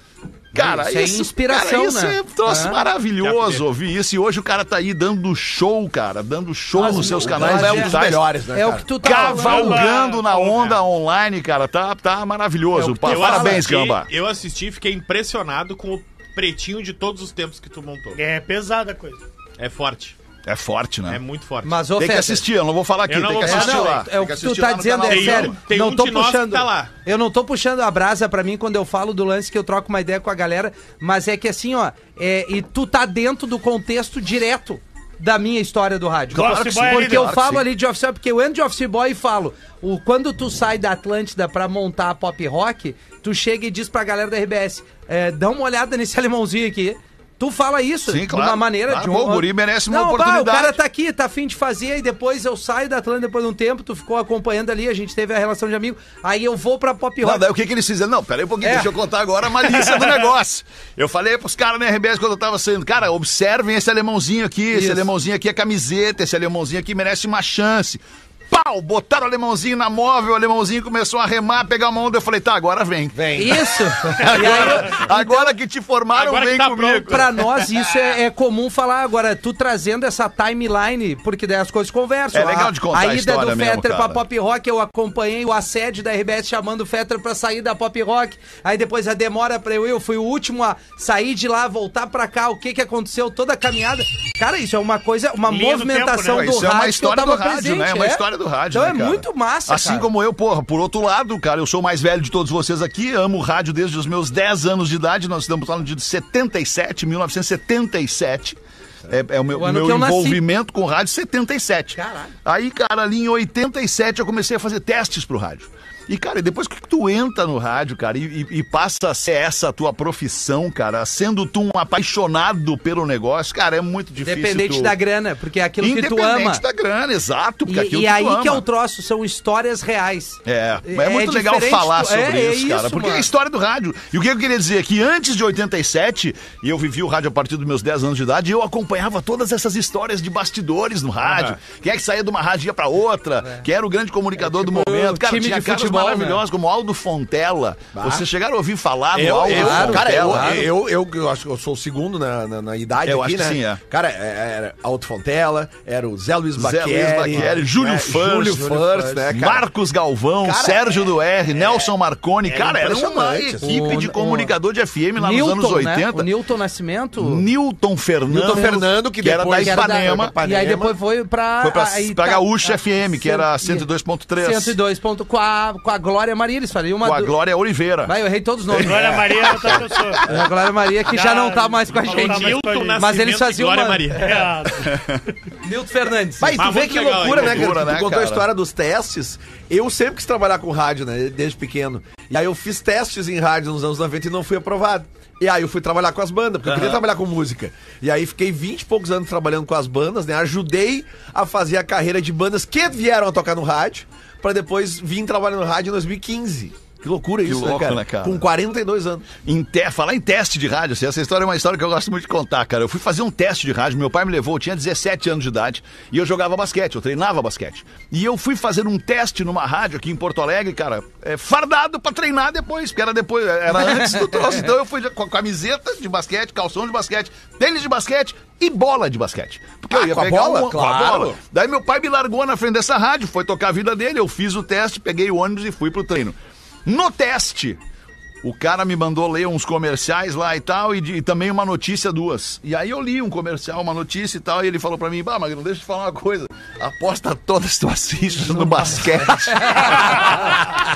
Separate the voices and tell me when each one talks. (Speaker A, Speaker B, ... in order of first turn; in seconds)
Speaker A: 0.5-8.2, 9.0-14.1, 20.4-21.2, 21.9-25.6, 36.3-37.6, 48.1-50.8, 57.2-77.8, 82.3-84.2, 96.3-108.6, 109.1-125.0, 125.8-128.6, 130.4-150.7, 153.0-153.8, 156.6-166.3, 167.2-170.4, 171.6-174.8, 177.0-178.2, 178.7-180.2, 187.3-188.5, 196.7-197.0, 207.4-208.5, 209.4-237.8, 238.4-250.6
Speaker B: 0.5-2.8, 6.8-9.8, 12.8-13.6, 21.6-22.4, 23.4-57.5, 58.6-58.9, 64.7-65.1, 73.4-75.5, 77.1-100.1, 109.5-110.4, 111.9-112.3, 124.2-126.6, 127.7-133.3, 144.4-146.4, 149.5-150.7, 163.6-164.5, 165.2-167.4, 169.6-173.9, 174.4-177.4, 178.1-179.2, 180.3-184.2, 185.6-186.6, 223.8-224.2, 249.5-250.0
Speaker C: 3.2-3.6, 12.9-18.2, 19.6-20.1, 21.1-21.7, 23.1-24.0, 25.1-26.9, 76.1-77.3, 141.2-141.6, 182.0-184.5, 186.6-187.8
Speaker D: 6.8-8.9, 73.1-73.6, 74.3-74.6, 147.9-148.2, 149.2-159.7, 160.4-161.9, 162.4-164.0, 168.3-170.9, 186.4-209.3, 229.9-231.4
Speaker E: 9.1-10.7, 18.1-19.2, 36.3-37.3, 95.5-96.5, 178.8-180.2, 181.1-183.1, 184.2-185.0